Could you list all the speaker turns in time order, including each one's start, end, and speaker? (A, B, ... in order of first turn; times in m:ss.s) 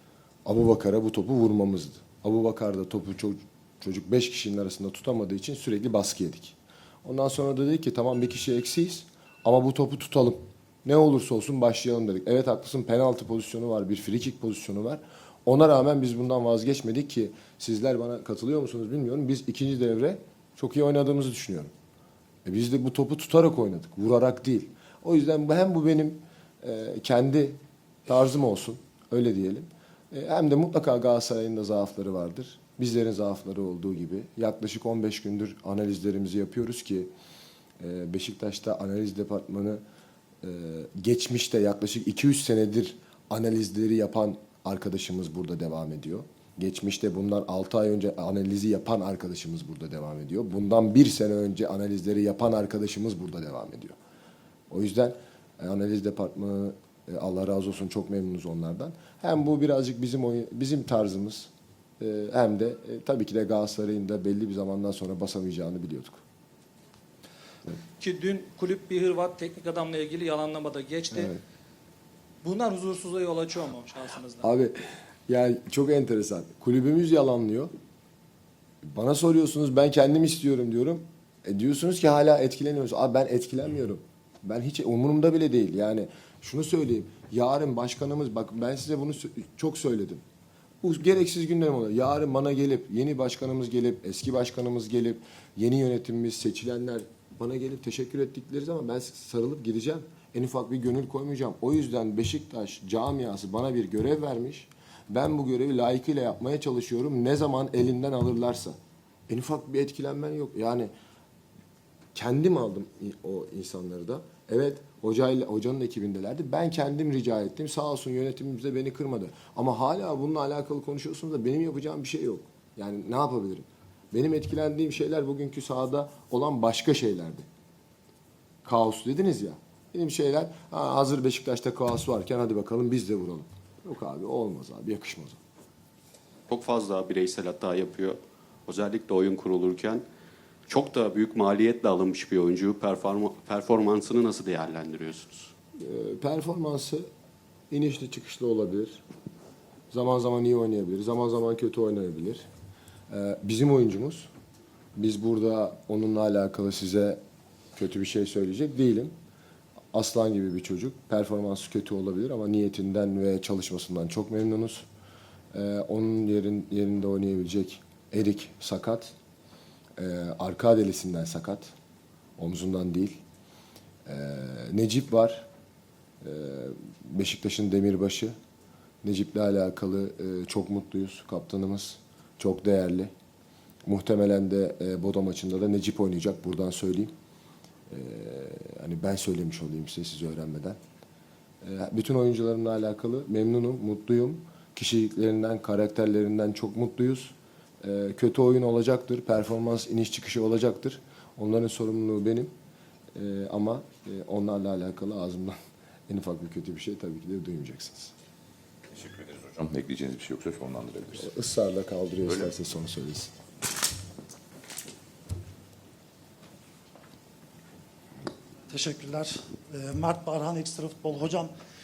0:00.4-0:21.7 A
0:22.4-0:37.1 A
0:37.8-0:39.8 A
0:40.4-0:54.0 A
0:54.7-1:06.2 A
1:08.0-1:11.3 B
1:11.1-1:11.4 A
1:12.4-1:14.4 B
1:14.4-1:17.7 A
1:18.9-1:30.2 A
1:30.8-1:48.8 A
1:49.3-1:50.9 A
1:52.2-2:07.5 A
2:08.6-2:15.4 A
2:16.5-2:20.0 C
2:20.7-2:25.5 C
2:25.8-2:27.1 A
2:27.7-2:29.0 A
2:29.9-2:32.5 A
2:33.1-2:34.3 A
2:35.0-2:37.2 A
2:37.8-2:39.1 A
2:39.9-2:44.9 A
2:45.5-2:49.1 A
2:50.0-2:51.7 A
2:52.4-2:53.2 A
2:54.1-2:55.5 A
2:56.2-2:58.3 A
2:59.0-3:03.1 A
3:03.8-3:07.1 A
3:07.9-3:10.8 A
3:11.6-3:22.5 A
3:23.2-3:25.6 A
3:26.1-3:28.1 A
3:28.9-3:31.3 D
3:31.2-3:33.3 A
3:38.7-3:41.5 E